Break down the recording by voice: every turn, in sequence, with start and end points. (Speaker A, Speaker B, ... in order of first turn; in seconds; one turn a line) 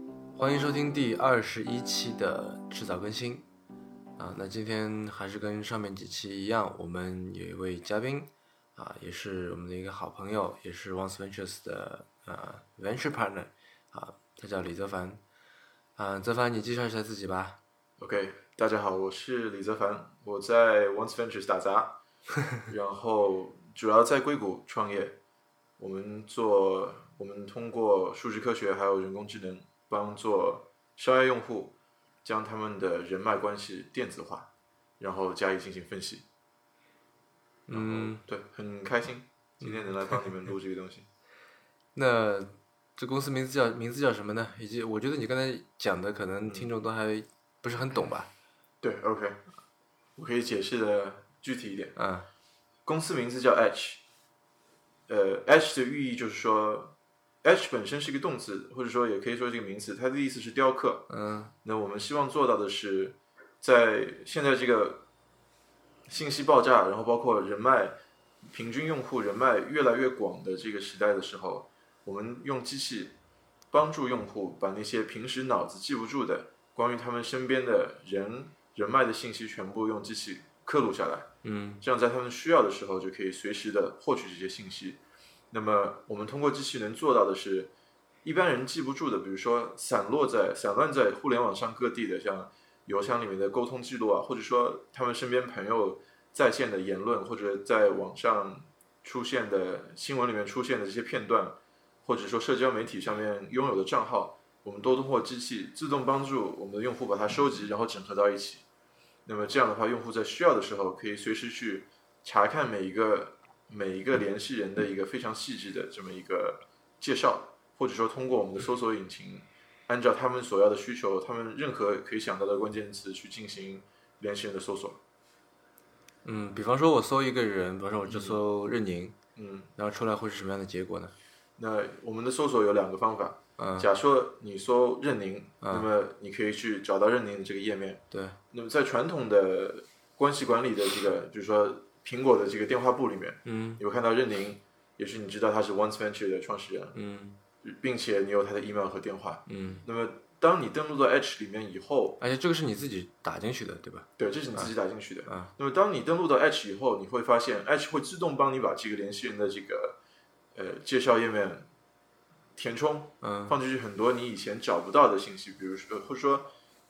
Speaker A: 0.3-3.5
Speaker A: 4.2-15.2
Speaker A: 15.9-17.6
Speaker B: 18.0-22.0
Speaker B: 22.5-25.2
Speaker B: 25.8-36.2
Speaker A: 37.7-38.2
Speaker B: 37.7-41.1
Speaker A: 39.6-40.3
Speaker A: 41.9-48.3
Speaker B: 48.8-49.4
Speaker B: 50.2-52.0
Speaker A: 52.0-52.3
Speaker B: 52.8-54.0
Speaker B: 55.1-61.1
Speaker A: 61.1-61.5
Speaker B: 61.6-65.0
Speaker B: 66.1-68.0
Speaker B: 68.5-73.2
Speaker B: 73.7-81.3
Speaker A: 81.4-81.8
Speaker B: 81.8-87.7
Speaker B: 88.2-108.6
Speaker B: 109.2-125.0
Speaker A: 126.2-129.2
Speaker B: 128.1-128.4
Speaker B: 129.3-129.7
Speaker A: 129.8-131.1
Speaker B: 131.6-147.0
Speaker A: 133.6-133.9
Speaker A: 135.6-135.9
Speaker A: 138.1-138.4
Speaker A: 143.4-143.8
Speaker A: 146.9-147.3
Speaker B: 147.6-152.2
Speaker A: 149.5-149.8
Speaker A: 152.2-154.7
Speaker B: 154.2-160.0
Speaker A: 155.3-155.5
Speaker B: 160.5-161.7
Speaker B: 162.6-166.5
Speaker A: 163.2-163.6